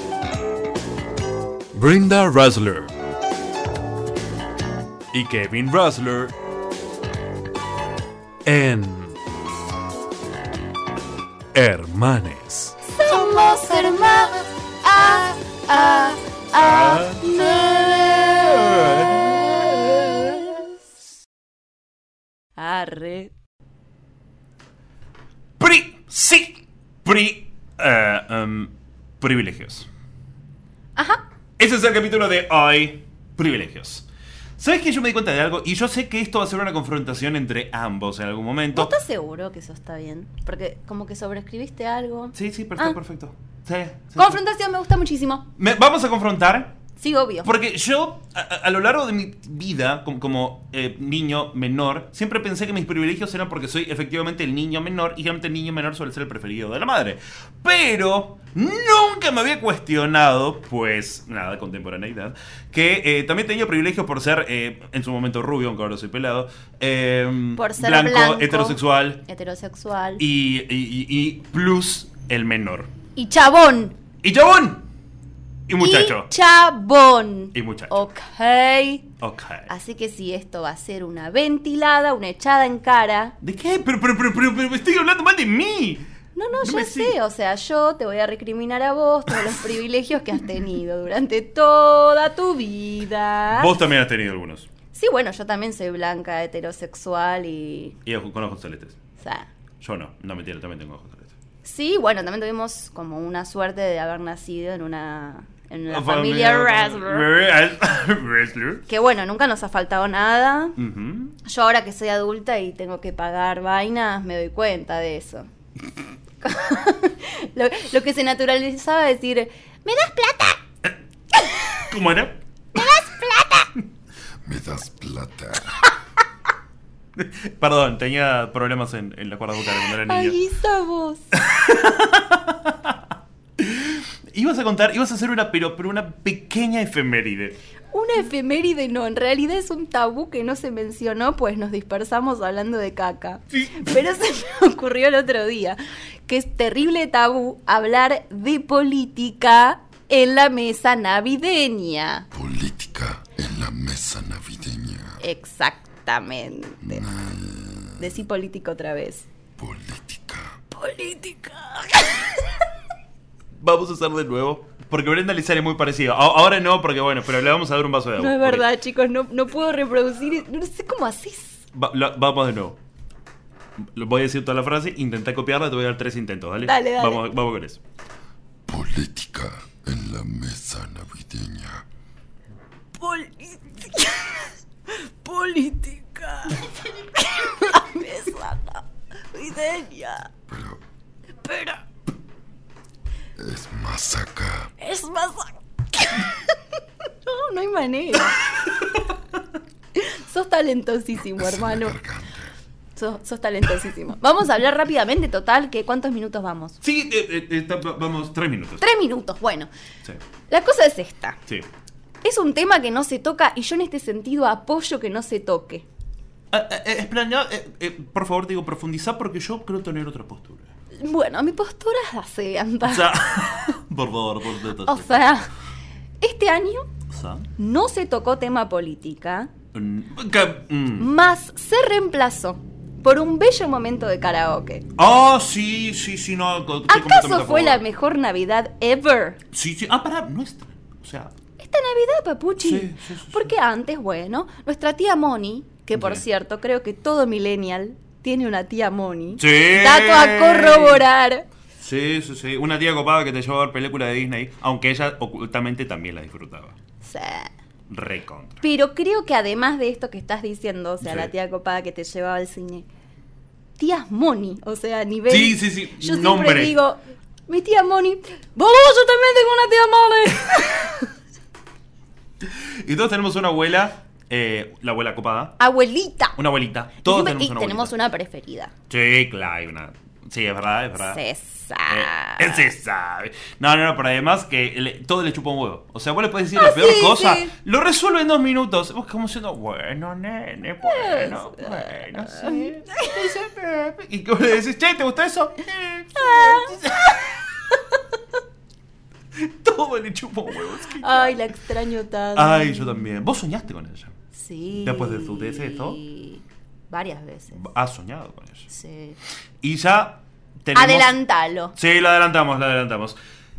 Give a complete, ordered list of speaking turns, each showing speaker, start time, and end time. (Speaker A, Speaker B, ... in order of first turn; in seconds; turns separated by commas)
Speaker A: 1.7-2.9, Speaker A: 5.1-6.3, Speaker A: 8.4-9.2, Speaker A: 11.5-14.1, Speaker B: 12.9-18.1, Speaker A: 16.5-20.2, Speaker B: 20.1-20.6, Speaker B: 22.6-23.3, Speaker A: 25.6-29.9, Speaker B: 30.9-31.2, Speaker A: 31.6-34.0, Speaker A: 34.6-38.9, Speaker B: 38.7-43.0, Speaker A: 42.3-44.4, Speaker B: 44.1-45.5, Speaker A: 45.6-46.7, Speaker B: 47.0-47.5, Speaker A: 47.4-69.2, Speaker B: 67.5-70.2, Speaker A: 70.2-72.9, Speaker B: 73.2-74.0, Speaker A: 74.2-74.8, Speaker A: 75.7-76.3, Speaker B: 75.8-79.1, Speaker A: 77.5-77.9, Speaker A: 79.2-79.7, Speaker B: 79.7-83.3, Speaker A: 83.4-86.0, Speaker B: 86.3-93.7, Speaker A: 86.6-87.1, Speaker A: 93.5-94.7, Speaker B: 94.9-98.0, Speaker A: 98.0-99.0, Speaker B: 99.2-99.5, Speaker A: 99.8-101.3, Speaker B: 101.6-107.2, Speaker A: 105.9-108.8, Speaker B: 108.9-110.8, Speaker A: 110.8-111.4, Speaker B: 111.4-115.5, Speaker B: 116.4-120.6, Speaker A: 121.8-122.4, Speaker B: 122.7-123.7, Speaker C: 124.4-125.8, Speaker A: 127.2-130.3, Speaker B: 130.0-131.3, Speaker A: 131.3-132.9, Speaker A: 133.6-137.6, Speaker B: 137.9-152.3, Speaker C: 152.3-155.2, Speaker B: 155.2-157.1, Speaker C: 156.8-158.1, Speaker B: 158.0-159.2, Speaker C: 159.6-160.6, Speaker B: 160.7-162.5, Speaker A: 163.6-168.7, Speaker B: 168.2-171.6, Speaker A: 171.7-172.8, Speaker A: 173.9-177.8, Speaker B: 176.6-177.2, Speaker C: 178.7-181.8, Speaker B: 183.0-190.3, Speaker C: 190.5-190.8, Speaker B: 191.4-191.8, Speaker C: 193.4-194.7, Speaker B: 194.8-196.3, Speaker B: 197.2-198.4, Speaker B: 199.9-201.9, Speaker C: 201.3-202.5, Speaker B: 202.9-206.8, Speaker A: 206.8-208.8, Speaker B: 208.8-209.7, Speaker B: 210.5-211.4, Speaker B: 212.2-215.8, Speaker A: 216.5-220.7, Speaker B: 221.0-223.1, Speaker A: 222.8-225.2, Speaker B: 224.8-225.5, Speaker B: 226.2-226.9, Speaker A: 227.1-227.5, Speaker B: 227.6-229.5, Speaker A: 229.7-231.1, Speaker B: 231.0-234.8, Speaker A: 235.0-237.8, Speaker B: 236.9-239.4, Speaker A: 239.5-241.3, Speaker B: 241.6-251.4, Speaker A: 242.6-243.5, Speaker A: 245.9-246.2, Speaker A: 249.4-251.0, Speaker A: 251.8-256.8, Speaker B: 257.0-257.5, Speaker A: 257.9-258.6, Speaker B: 258.6-262.9, Speaker A: 261.0-261.3, Speaker B: 263.8-271.1, Speaker A: 265.3-266.7, Speaker A: 272.4-275.6, Speaker B: 275.6-276.4, Speaker A: 276.4-277.9, Speaker B: 277.0-278.7, Speaker A: 278.9-281.2, Speaker B: 281.0-282.7, Speaker A: 281.9-297.6, Speaker B: 286.6-287.5, Speaker B: 290.8-293.2, Speaker B: 296.1-296.8, Speaker A: 299.4-301.4, Speaker B: 301.0-303.0, Speaker A: 302.4-304.1, Speaker B: 304.3-307.6, Speaker A: 304.8-306.0, Speaker A: 307.5-308.7, Speaker B: 308.7-309.2, Speaker A: 309.6-311.1, Speaker B: 310.7-311.7, Speaker A: 311.7-313.2